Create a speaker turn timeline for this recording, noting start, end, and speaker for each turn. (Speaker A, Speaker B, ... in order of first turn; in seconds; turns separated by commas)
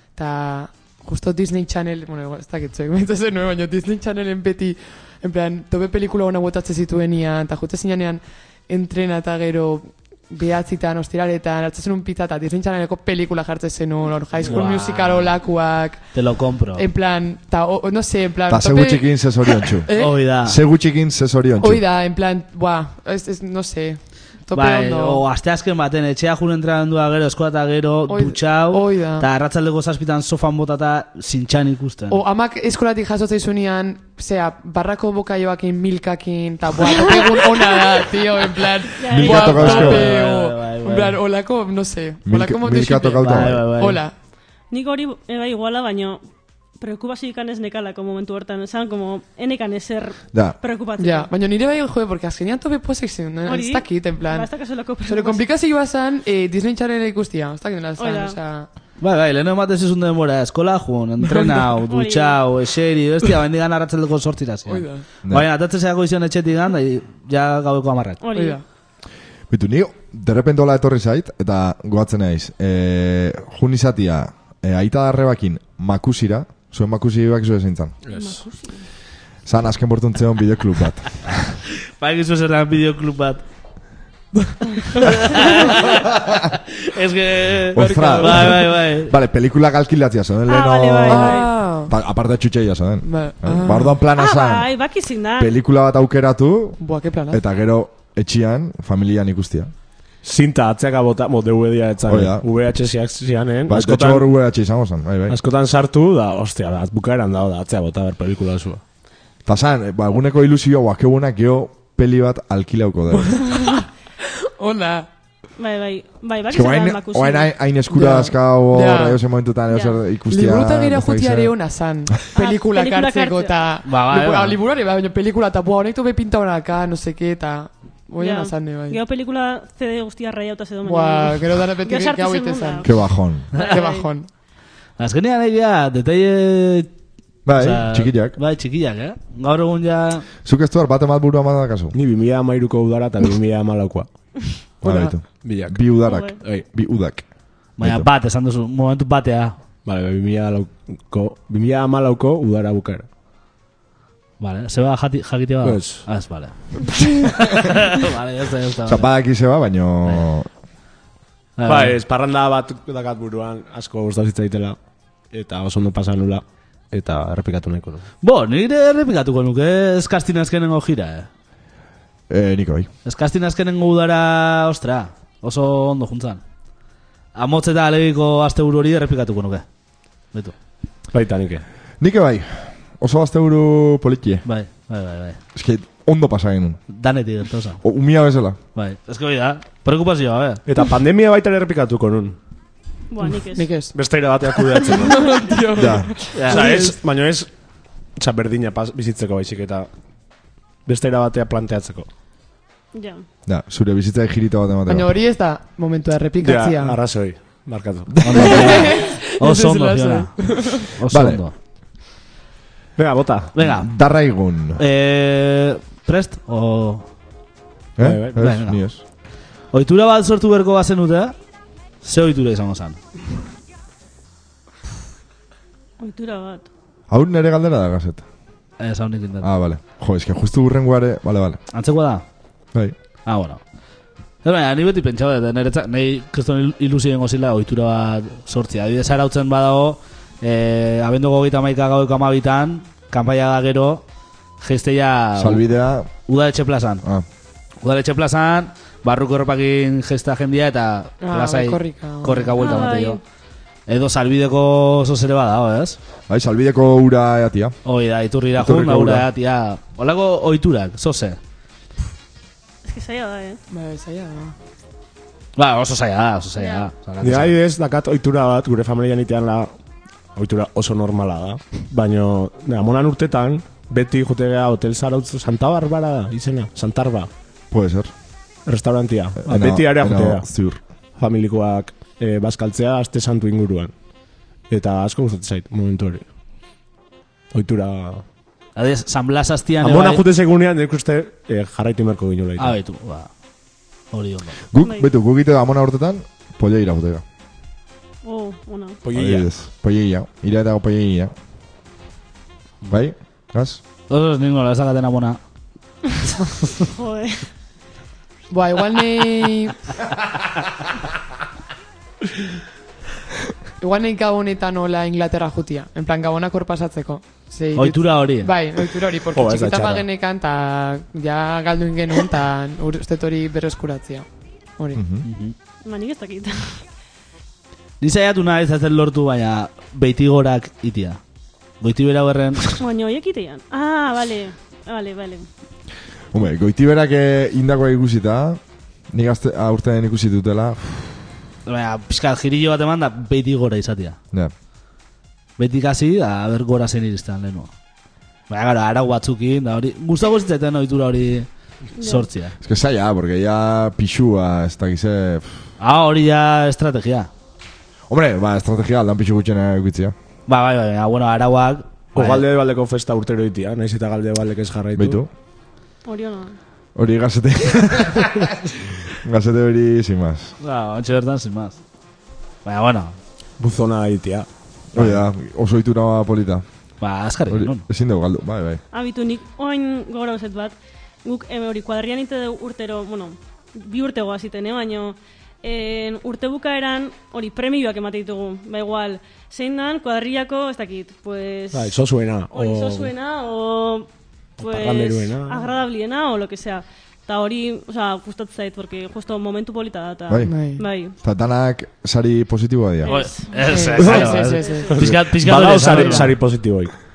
Speaker A: 0.1-20.2, Speaker B: 14.4-15.3, Speaker B: 16.1-16.8, Speaker C: 18.5-21.8, Speaker B: 19.9-20.6, Speaker A: 21.6-25.2, Speaker B: 24.5-32.2, Speaker A: 28.1-29.2, Speaker A: 32.1-44.1, Speaker D: 39.0-40.0, Speaker C: 39.1-40.1, Speaker B: 39.4-41.2, Speaker C: 42.2-43.6, Speaker B: 43.2-44.0, Speaker D: 44.7-46.2, Speaker D: 46.8-51.3, Speaker A: 51.0-54.5, Speaker D: 53.5-55.4, Speaker A: 55.0-58.7, Speaker D: 58.0-58.4, Speaker B: 59.0-68.2, Speaker D: 61.9-62.4, Speaker A: 64.7-65.0, Speaker D: 68.2-68.6, Speaker A: 68.3-68.6, Speaker C: 69.5-78.0, Speaker E: 78.0-78.4, Speaker D: 78.1-78.8, Speaker C: 79.4-81.6, Speaker B: 82.0-83.4, Speaker B: 85.4-85.7, Speaker B: 86.9-89.1, Speaker C: 87.7-94.7, Speaker A: 87.8-88.7, Speaker D: 90.5-91.5, Speaker A: 91.0-91.9, Speaker A: 93.0-94.0, Speaker D: 94.2-95.6, Speaker C: 95.4-96.8, Speaker A: 96.8-97.4, Speaker C: 97.3-99.7, Speaker E: 100.2-104.3, Speaker C: 102.1-102.4, Speaker C: 103.7-105.4, Speaker E: 105.3-108.8, Speaker C: 109.5-113.4, Speaker A: 113.3-113.8, Speaker A: 114.6-115.1, Speaker D: 115.6-117.5, Speaker C: 116.5-121.5, Speaker A: 117.9-119.2, Speaker D: 119.7-120.0, Speaker A: 120.3-129.0, Speaker D: 122.3-123.6, Speaker B: 123.8-124.6, Speaker D: 128.2-132.9, Speaker A: 130.8-134.3, Speaker C: 132.8-133.5, Speaker D: 133.5-134.1, Speaker B: 135.0-136.9, Speaker C: 137.4-138.4, Speaker B: 137.5-140.2, Speaker C: 140.4-141.9, Speaker E: 141.9-144.1, Speaker E: 144.8-146.6, Speaker C: 144.8-148.1, Speaker A: 144.8-145.2, Speaker D: 146.1-146.4, Speaker B: 147.8-149.5, Speaker E: 149.8-153.1, Speaker B: 154.4-159.1, Speaker E: 155.6-156.3, Speaker C: 158.9-160.5, Speaker B: 161.6-162.0, Speaker E: 161.6-164.8, Speaker E: 165.3-168.0, Speaker B: 168.2-171.3, Speaker C: 172.3-172.9, Speaker B: 173.0-176.4, Speaker B: 177.3-179.6, Speaker E: 181.1-181.6, Speaker C: 182.0-184.4, Speaker B: 184.4-185.4, Speaker C: 185.5-186.8, Speaker B: 186.9-187.8, Speaker C: 187.8-188.6, Speaker B: 188.7-190.6, Speaker E: 190.6-192.4, Speaker D: 193.1-193.7, Speaker A: 193.2-196.8, Speaker E: 193.9-195.3, Speaker C: 195.8-196.1, Speaker B: 196.3-196.9, Speaker E: 196.5-197.5, Speaker E: 198.2-199.9, Speaker E: 200.8-202.1, Speaker D: 202.9-203.2, Speaker C: 203.5-205.1, Speaker A: 204.9-207.0, Speaker E: 206.4-208.5, Speaker B: 208.2-211.5, Speaker A: 208.4-210.9, Speaker C: 211.1-211.4, Speaker E: 213.0-213.5, Speaker B: 213.5-213.9, Speaker C: 213.6-214.8, Speaker B: 214.8-217.1, Speaker C: 218.0-219.0, Speaker E: 218.0-218.4, Speaker B: 218.4-218.8, Speaker B: 219.7-221.3, Speaker B: 222.0-223.0, Speaker D: 226.0-226.7, Speaker C: 227.1-228.2, Speaker B: 228.8-229.5, Speaker C: 229.4-231.6, Speaker B: 231.7-232.2, Speaker B: 233.2-233.6, Speaker B: 234.4-244.0, Speaker B: 244.6-245.6, Speaker C: 245.4-246.1, Speaker B: 246.2-247.0, Speaker B: 247.8-253.2, Speaker A: 251.2-252.8, Speaker D: 252.6-253.2, Speaker B: 253.9-256.0, Speaker C: 256.3-257.8, Speaker B: 257.8-261.4, Speaker C: 258.6-259.3, Speaker D: 262.8-263.6, Speaker A: 263.7-264.5, Speaker B: 265.6-267.5, Speaker A: 266.6-266.9, Speaker E: 267.2-269.7, Speaker E: 270.3-277.3, Speaker C: 277.7-278.1, Speaker E: 278.6-280.5, Speaker C: 279.4-280.8, Speaker E: 281.1-283.9, Speaker E: 284.6-286.2, Speaker E: 287.5-288.2, Speaker B: 288.8-290.2, Speaker E: 289.8-292.8, Speaker B: 292.6-293.3, Speaker B: 294.1-294.6, Speaker C: 294.7-297.2, Speaker D: 294.8-295.1, Speaker D: 298.2-299.0, Speaker E: 299.0-299.5, Speaker C: 299.1-301.3, Speaker C: 302.9-303.8, Speaker B: 304.1-305.4, Speaker D: 306.9-307.5, Speaker A: 308.5-309.8, Speaker A: 313.8-324.2, Speaker B: 317.7-318.5, Speaker E: 319.3-320.0, Speaker C: 324.9-325.3, Speaker B: 325.2-325.5, Speaker D: 325.8-326.8, Speaker B: 328.0-331.2, Speaker B: 331.8-332.8, Speaker D: 332.8-335.5, Speaker C: 336.3-341.1, Speaker B: 341.6-344.2, Speaker B: 345.6-347.7, Speaker B: 348.5-352.5, Speaker D: 352.0-352.2, Speaker C: 352.6-355.6, Speaker B: 355.8-357.3, Speaker C: 358.1-360.1, Speaker B: 360.5-362.4, Speaker E: 362.1-365.2, Speaker C: 364.9-365.3, Speaker D: 366.0-366.6, Speaker C: 366.9-368.5, Speaker C: 369.1-370.5, Speaker B: 370.6-371.8, Speaker B: 372.6-373.2, Speaker E: 373.6-374.5, Speaker C: 374.9-376.6, Speaker B: 377.0-377.8, Speaker C: 377.5-378.8, Speaker D: 378.9-392.0, Speaker E: 391.7-393.1, Speaker D: 392.5-401.1, Speaker E: 394.6-395.7, Speaker C: 400.3-403.1, Speaker A: 400.4-400.8, Speaker D: 403.0-404.9, Speaker B: 403.1-406.4, Speaker A: 403.6-404.9, Speaker E: 404.9-407.0, Speaker A: 405.9-406.2